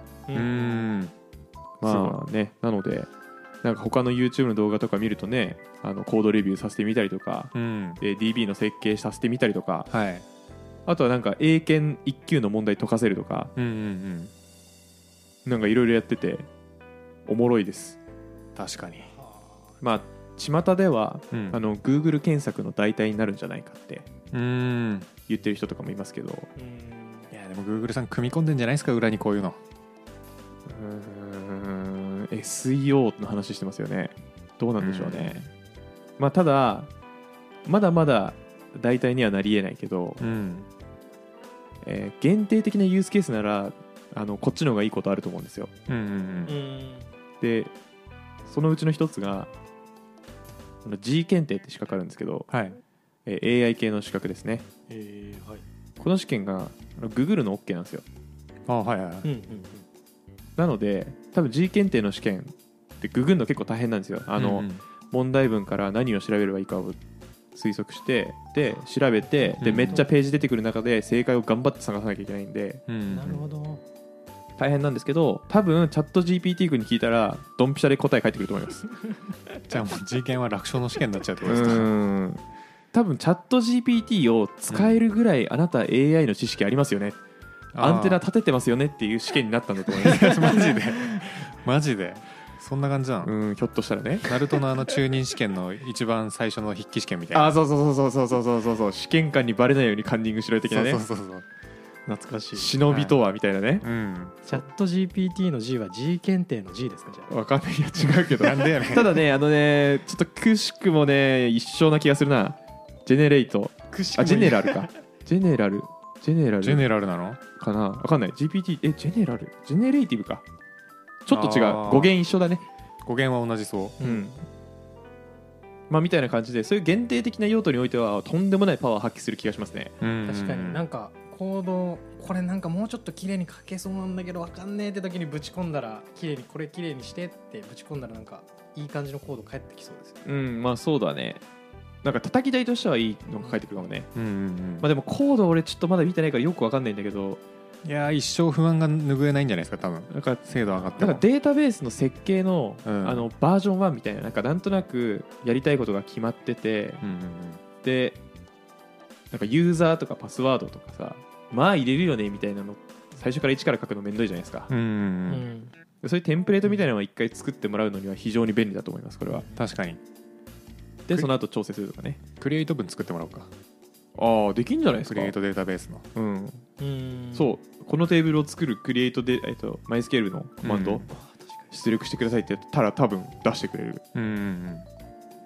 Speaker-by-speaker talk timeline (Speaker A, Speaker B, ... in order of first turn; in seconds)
Speaker A: 0.3-0.9, 19.1-19.8, 26.6-27.3, 46.5-47.1, 54.9-55.6, 59.2-59.9, 69.2-70.1, 73.1-73.8, 102.1-102.7, 104.5-107.3, 113.9-114.9, 124.0-124.3, 130.2-140.2, 150.8-151.1, 165.3-165.7, 169.3-169.7, 176.8-177.5, 181.1-181.7
Speaker B: 0.3-1.1, 1.8-2.2, 7.5-8.0, 9.9-10.2, 13.6-14.3, 18.6-19.1, 21.3-21.6, 24.3-25.1, 27.3-29.6, 34.8-35.5, 40.2-40.7, 45.9-46.6, 52.5-52.8, 58.7-59.3, 64.4-64.8, 69.6-70.1, 72.9-73.5, 79.7-81.9, 87.8-88.2, 89.9-93.3, 94.2-97.5, 100.7-101.5, 102.9-103.2, 103.8-104.4, 108.3-109.2, 116.6-117.4, 121.3-122.2, 123.0-124.0, 130.0-130.8, 144.2-144.9, 147.8-151.2, 152.8-153.3, 157.0-157.6, 164.7-165.5, 169.6-170.0, 172.4-173.5, 175.0-176.1, 180.6-181.1, 184.1-184.9
Speaker C: 1.8-3.1, 3.6-9.9, 10.9-13.5, 15.4-16.5, 17.3-18.0, 19.8-24.1, 25.3-26.5, 30.7-35.5, 36.2-36.9, 37.7-40.2, 41.8-45.7, 47.4-47.7, 48.5-49.5, 50.8-52.5, 53.3-54.7, 56.0-58.0, 60.6-67.0, 67.5-72.8, 74.6-78.9, 81.5-82.4, 82.9-87.2, 87.8-91.3, 93.2-94.4, 97.3-101.0, 102.5-103.9, 107.3-116.9, 117.6-120.5, 121.2-122.6, 124.0-124.4, 125.9-130.0, 140.2-141.4, 142.0-144.1, 144.8-147.4, 150.1-157.0, 157.8-158.2, 159.3-164.7, 166.0-169.5, 171.1-172.2, 174.2-175.3, 176.2-176.7, 177.3-181.1, 181.7-184.0